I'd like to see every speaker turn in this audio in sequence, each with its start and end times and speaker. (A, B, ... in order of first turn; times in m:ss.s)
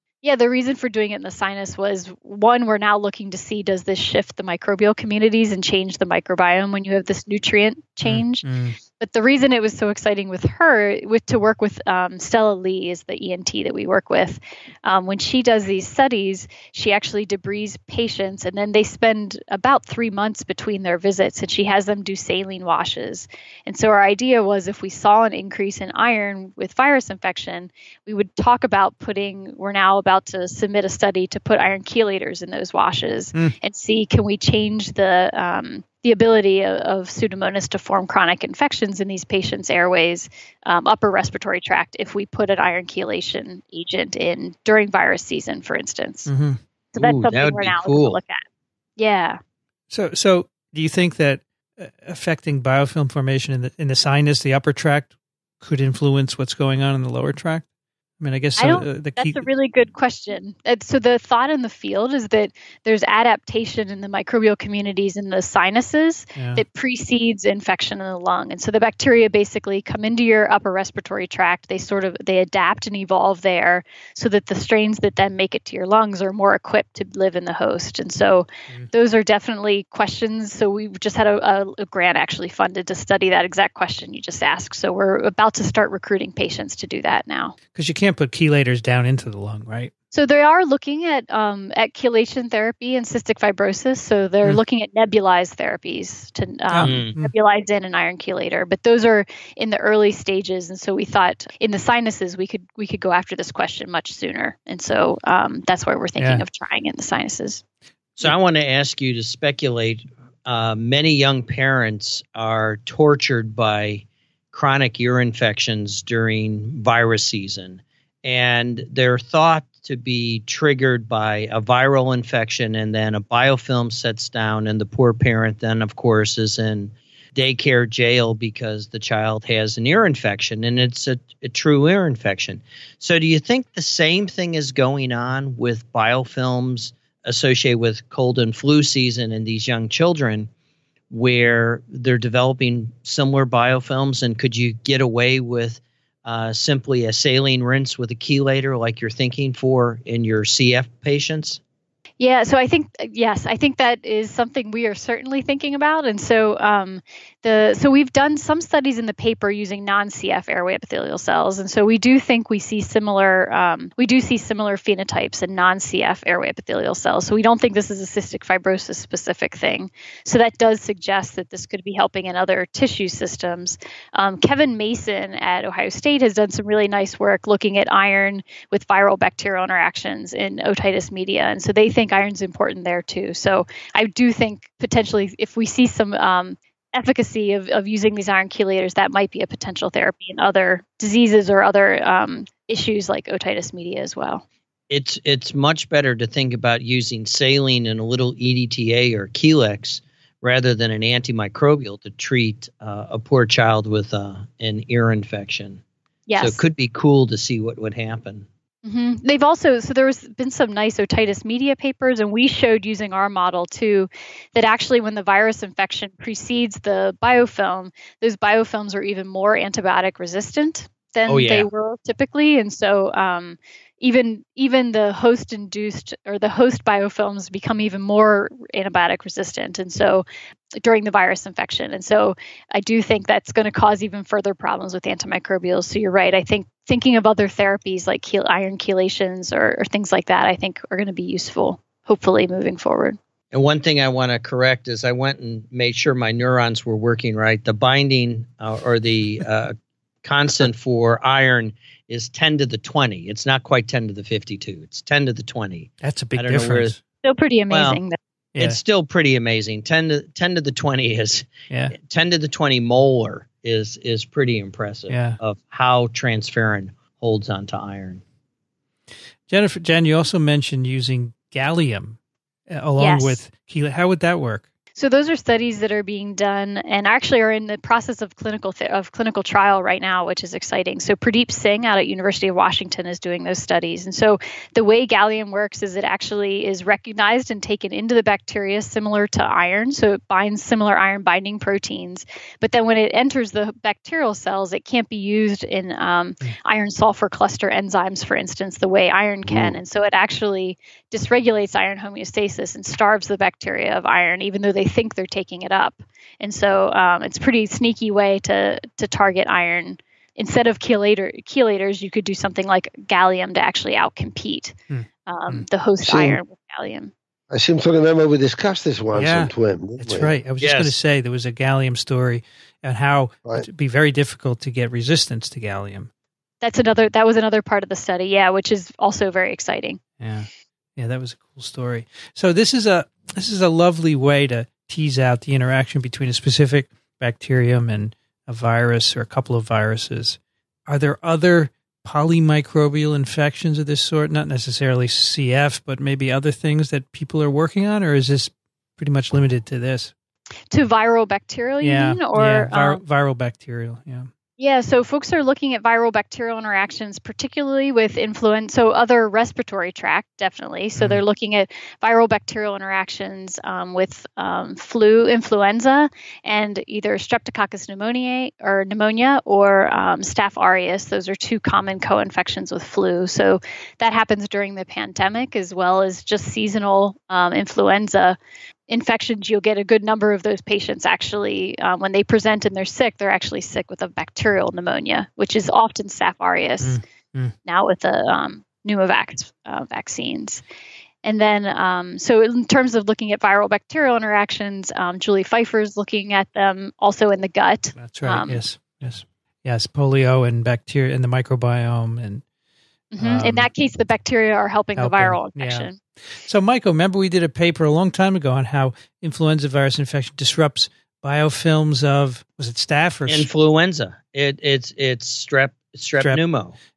0:00.2-0:46.3 A
0:08.0-0:08.8 B
0:46.3-0:46.6 B
0:46.9-0:48.4 A
0:47.0-0:48.2 C
0:49.0-0:49.4 A
0:49.9-0:57.6 B
0:58.2-0:59.4 B
0:58.6-1:27.6 A
1:06.4-1:06.6 B
1:27.7-1:29.9 B
1:30.1-1:47.6 A
1:36.7-1:37.3 B
1:36.8-1:37.2 C
1:46.2-1:46.4 B
1:48.2-2:20.5 C
2:21.1-2:31.6 C
2:32.2-3:14.4 A
3:14.9-3:25.8 C
3:26.3-3:26.6 A
3:26.4-3:28.5 C
3:28.8-3:50.2 A
3:41.3-3:41.7 C
3:50.8-4:03.2 A
4:03.5-4:16.9 C
4:16.0-4:17.0 B
4:17.2-4:18.2 A
4:17.7-4:18.0 C
4:18.6-4:28.2 C
4:25.1-4:25.4 B
4:29.5-4:32.2 B
4:32.7-4:34.6 B
4:33.0-4:33.4 A
4:35.0-5:17.1 A
4:59.5-4:59.8 D
5:14.9-5:15.6 B
5:16.0-5:16.4 D
5:17.5-5:20.3 D
5:19.1-5:26.1 B
5:20.6-5:21.0 C
5:26.6-5:30.0 A
5:30.2-5:50.1 B
5:50.7-5:53.0 A
5:51.8-5:54.3 B
5:54.6-6:18.4 A
6:01.0-6:01.2 B
6:18.9-6:27.0 A
6:26.8-6:27.6 B
6:27.7-6:30.6 A
6:31.2-6:38.6 A
6:38.0-6:42.4 B
6:43.1-6:46.0 A
6:43.2-6:43.7 B
6:45.0-6:53.5 B
6:53.3-6:56.8 C